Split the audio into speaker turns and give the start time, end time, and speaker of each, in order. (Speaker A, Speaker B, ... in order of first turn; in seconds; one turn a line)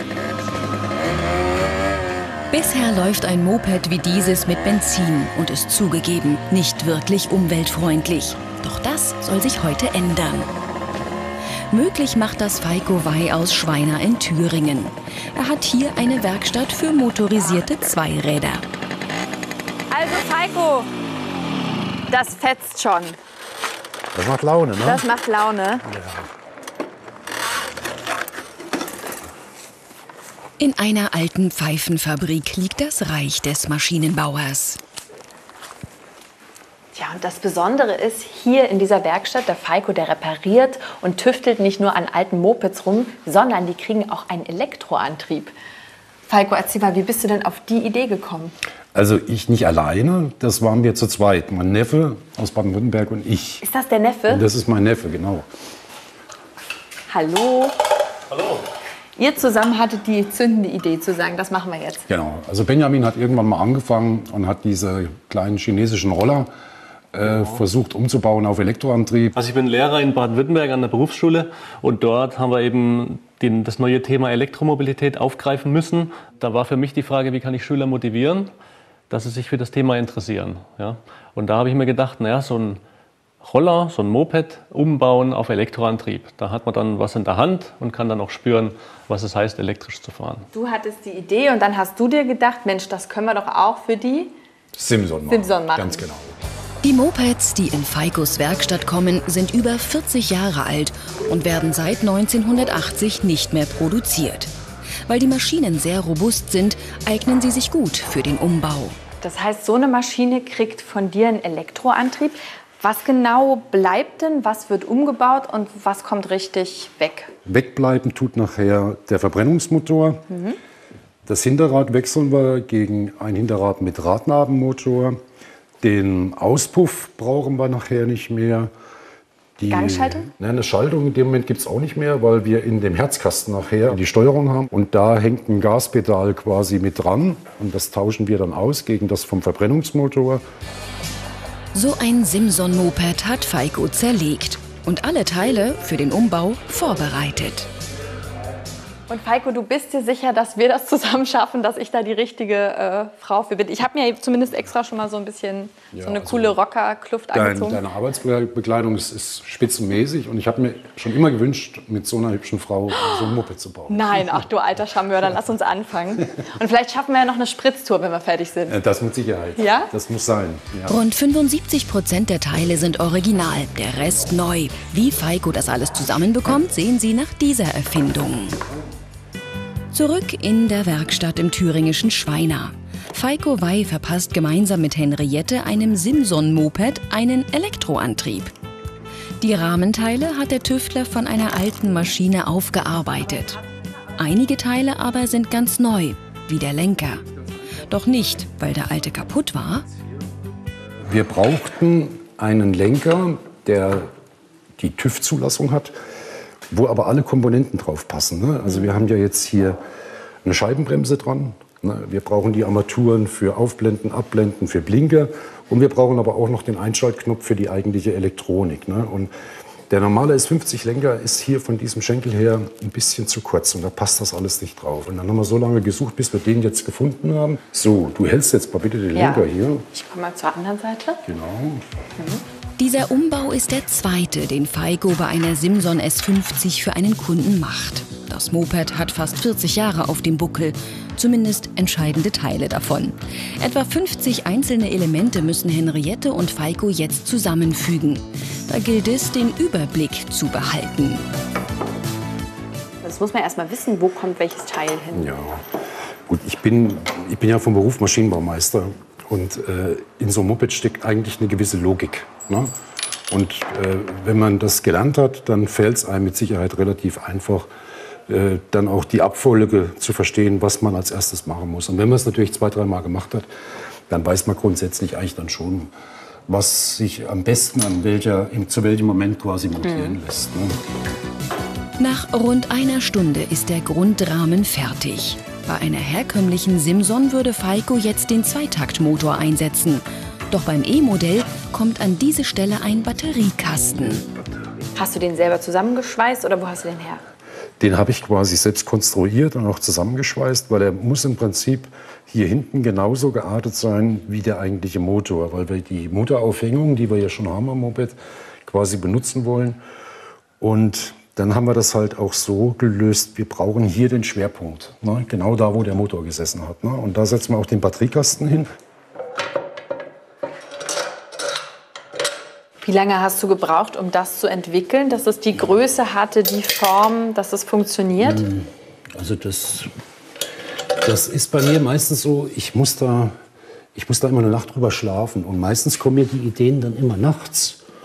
Speaker A: 2.5-10.5
Speaker A: 11.7-18.6
Speaker B: 19.9-20.9
Speaker B: 22.1-23.2
Speaker C: 24.1-25.0
Speaker B: 24.8-25.9
Speaker C: 25.9-26.2
Speaker A: 30.6-34.8
Speaker B: 36.9-45.5
Speaker B: 46.3-48.5
Speaker C: 48.9-53.6
Speaker B: 53.6-54.5
Speaker C: 54.3-55.5
Speaker B: 57.1-57.8
Speaker D: 58.3-58.7
Speaker B: 59.2-62.0
Speaker C: 62.1-66.5
Speaker C: 67.1-69.3
Speaker D: 67.2-67.6
Speaker D: 69.3-78.5
Speaker D: 79.1-82.8
Speaker D: 83.4-90.5
Speaker B: 90.5-94.3
Speaker C: 94.7-96.3
Speaker B: 95.3-96.0
Speaker A: 96.8-104.5
Speaker A: 105.1-109.0
Speaker B: 109.2-117.3
Speaker C: 117.4-120.2
Speaker B: 120.3-120.6
Speaker C: 121.2-125.2
Speaker C: 125.8-128.7
Speaker C: 129.6-140.4
Speaker B: 129.7-130.3
Speaker A: 141.7-147.7
Speaker B: 149.1-157.8
Speaker C: 155.9-156.6
Speaker C: 157.3-164.4
Speaker B: 162.9-168.8
Speaker C: 168.7-171.0
Speaker B: 169.6-169.9
Speaker A: 170.9-178.6
Speaker A: 179.9-188.5
Speaker A: 189.4-193.6
Speaker A: 194.2-199.9
Speaker C: 201.0-204.1
Speaker C: 204.8-205.9
Speaker C: 206.7-209.8
Speaker C: 210.4-219.3
Speaker C: 219.9-229.9
Speaker B: 229.1-231.2
Speaker C: 231.2-231.8
Speaker B: 232.2-232.4
Speaker A: 232.8-251.2
Speaker B: 253.0-255.3
Speaker C: 255.1-262.7
Speaker C: 263.3-267.7
Speaker C: 268.3-273.5
Speaker C: 274.1-275.9
Speaker C: 276.5-280.8
Speaker B: 279.8-280.2
Speaker A: 282.0-294.2
Speaker B: 294.9-297.2
Speaker C: 297.8-309.8
Speaker C: 310.6-318.7
Speaker B: 322.8-328.4
Speaker C: 328.2-329.9
Speaker C: 331.0-333.3
Speaker C: 333.9-337.8